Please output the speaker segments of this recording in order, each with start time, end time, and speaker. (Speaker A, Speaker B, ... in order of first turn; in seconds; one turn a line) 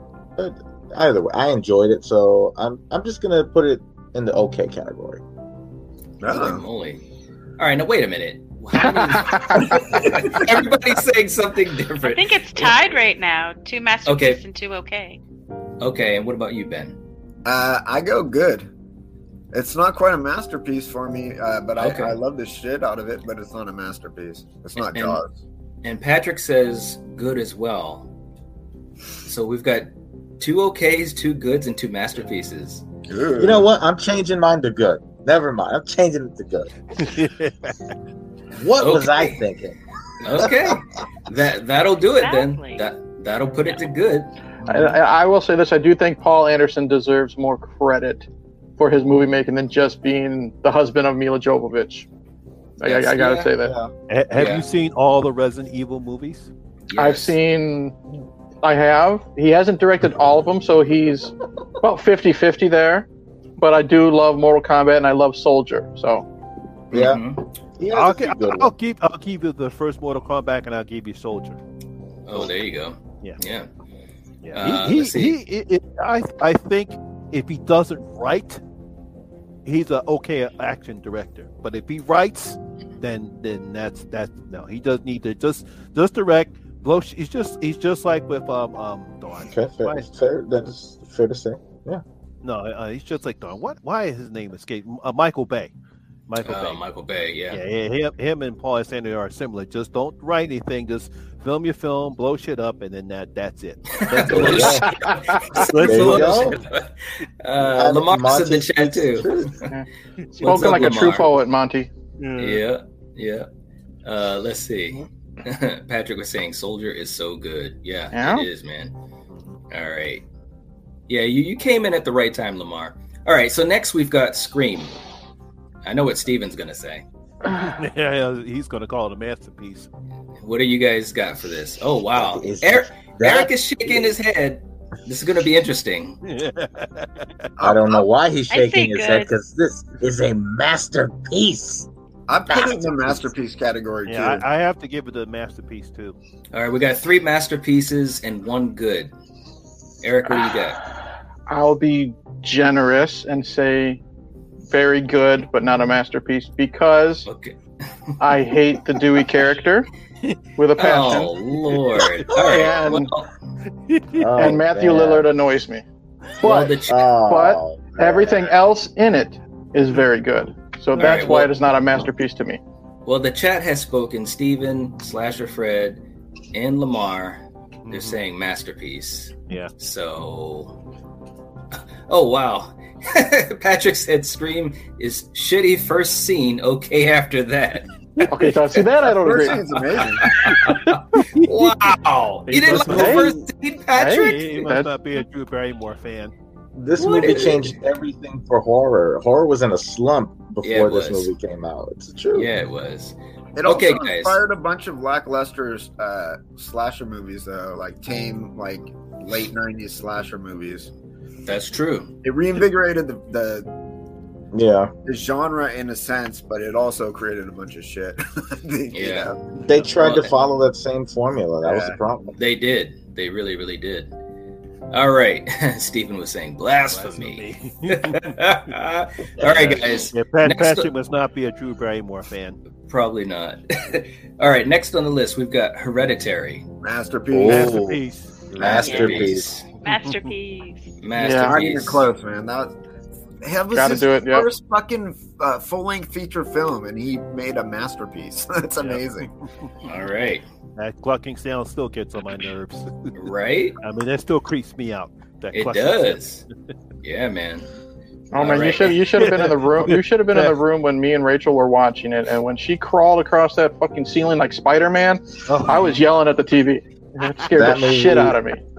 Speaker A: 0.4-5.2
Speaker B: 6.2-6.6
Speaker C: 6.2-7.0
Speaker C: 7.6-13.0
Speaker D: 9.3-9.6
Speaker B: 9.7-10.4
Speaker E: 12.0-15.2
Speaker C: 14.1-14.4
Speaker C: 15.8-17.0
Speaker B: 17.4-18.7
Speaker B: 19.5-25.3
Speaker C: 21.8-22.2
Speaker C: 24.8-25.2
Speaker C: 25.8-28.1
Speaker C: 29.2-32.9
Speaker B: 33.1-33.7
Speaker A: 33.4-36.7
Speaker F: 37.0-37.9
Speaker A: 38.5-40.8
Speaker C: 38.8-39.4
Speaker C: 40.2-44.3
Speaker E: 42.2-42.9
Speaker A: 44.6-45.0
Speaker D: 44.7-48.3
Speaker D: 48.8-52.1
Speaker D: 52.8-53.7
Speaker C: 52.9-53.5
Speaker A: 53.6-53.9
Speaker F: 54.1-56.5
Speaker C: 54.4-54.6
Speaker C: 56.9-57.4
Speaker D: 57.0-58.0
Speaker D: 58.6-63.1
Speaker D: 63.6-66.3
Speaker A: 66.9-67.2
Speaker C: 66.9-67.5
Speaker A: 67.8-68.8
Speaker F: 67.9-71.6
Speaker C: 72.3-73.7
Speaker F: 74.4-78.6
Speaker C: 74.5-75.4
Speaker F: 79.7-90.1
Speaker A: 89.5-92.0
Speaker F: 92.4-95.7
Speaker F: 96.3-96.8
Speaker C: 96.4-97.6
Speaker F: 97.5-104.9
Speaker C: 104.0-109.7
Speaker A: 104.2-104.9
Speaker D: 105.1-105.4
Speaker F: 105.5-106.6
Speaker A: 105.8-106.6
Speaker A: 107.7-109.5
Speaker C: 110.4-111.3
Speaker D: 110.4-111.9
Speaker F: 112.2-112.6
Speaker C: 112.4-113.5
Speaker C: 114.0-118.9
Speaker D: 118.1-118.5
Speaker F: 119.3-119.6
Speaker C: 119.7-120.2
Speaker C: 121.1-125.0
Speaker C: 125.8-127.0
Speaker F: 127.5-129.9
Speaker C: 130.4-136.2
Speaker A: 132.2-133.5
Speaker F: 136.2-137.5
Speaker B: 137.6-138.1
Speaker A: 137.6-141.9
Speaker E: 138.5-139.3
Speaker B: 142.3-144.4
Speaker A: 142.5-143.2
Speaker F: 144.1-146.2
Speaker C: 146.5-149.1
Speaker C: 150.0-150.8
Speaker D: 151.5-154.0
Speaker D: 154.7-157.3
Speaker C: 157.3-157.6
Speaker D: 158.2-159.9
Speaker D: 160.6-161.3
Speaker C: 160.8-163.3
Speaker D: 162.4-163.1
Speaker F: 163.9-164.3
Speaker A: 164.2-165.3
Speaker D: 164.4-165.8
Speaker C: 166.4-167.1
Speaker D: 166.4-172.6
Speaker A: 166.5-168.6
Speaker C: 170.9-171.5
Speaker C: 173.1-176.0
Speaker C: 176.5-180.8
Speaker F: 177.8-178.2
Speaker C: 182.1-187.9
Speaker F: 188.2-188.5
Speaker D: 188.3-189.6
Speaker B: 189.1-190.3
Speaker C: 189.4-194.6
Speaker F: 190.3-190.8
Speaker F: 191.3-191.9
Speaker D: 192.5-193.4
Speaker F: 192.6-193.3
Speaker D: 194.0-194.9
Speaker F: 194.2-196.3
Speaker A: 196.8-202.5
Speaker C: 197.0-197.7
Speaker C: 200.6-201.3
Speaker C: 202.3-204.4
Speaker B: 203.6-210.9
Speaker C: 211.5-212.1
Speaker B: 212.2-213.7
Speaker A: 214.5-214.9
Speaker B: 215.1-219.4
Speaker C: 218.9-219.3
Speaker A: 219.6-222.4
Speaker C: 220.0-220.3
Speaker B: 221.6-222.0
Speaker C: 222.4-224.1
Speaker C: 224.9-230.9
Speaker F: 226.9-228.3
Speaker F: 229.4-232.6
Speaker C: 232.9-236.7
Speaker B: 236.8-237.8
Speaker A: 237.3-238.0
Speaker F: 237.5-239.3
Speaker A: 238.6-239.5
Speaker C: 238.6-239.7
Speaker E: 238.7-239.2
Speaker E: 239.8-240.9
Speaker F: 239.8-240.3
Speaker C: 241.0-242.1
Speaker D: 241.2-241.5
Speaker B: 241.4-242.8
Speaker B: 243.4-249.3
Speaker D: 243.7-244.5
Speaker F: 248.8-249.7
Speaker C: 249.8-250.4
Speaker F: 250.8-253.1
Speaker C: 253.2-253.8
Speaker F: 253.8-256.2
Speaker C: 255.5-256.5
Speaker C: 257.0-257.7
Speaker D: 258.3-268.6
Speaker C: 258.4-259.0
Speaker F: 259.1-260.6
Speaker F: 265.5-266.0
Speaker A: 267.5-268.4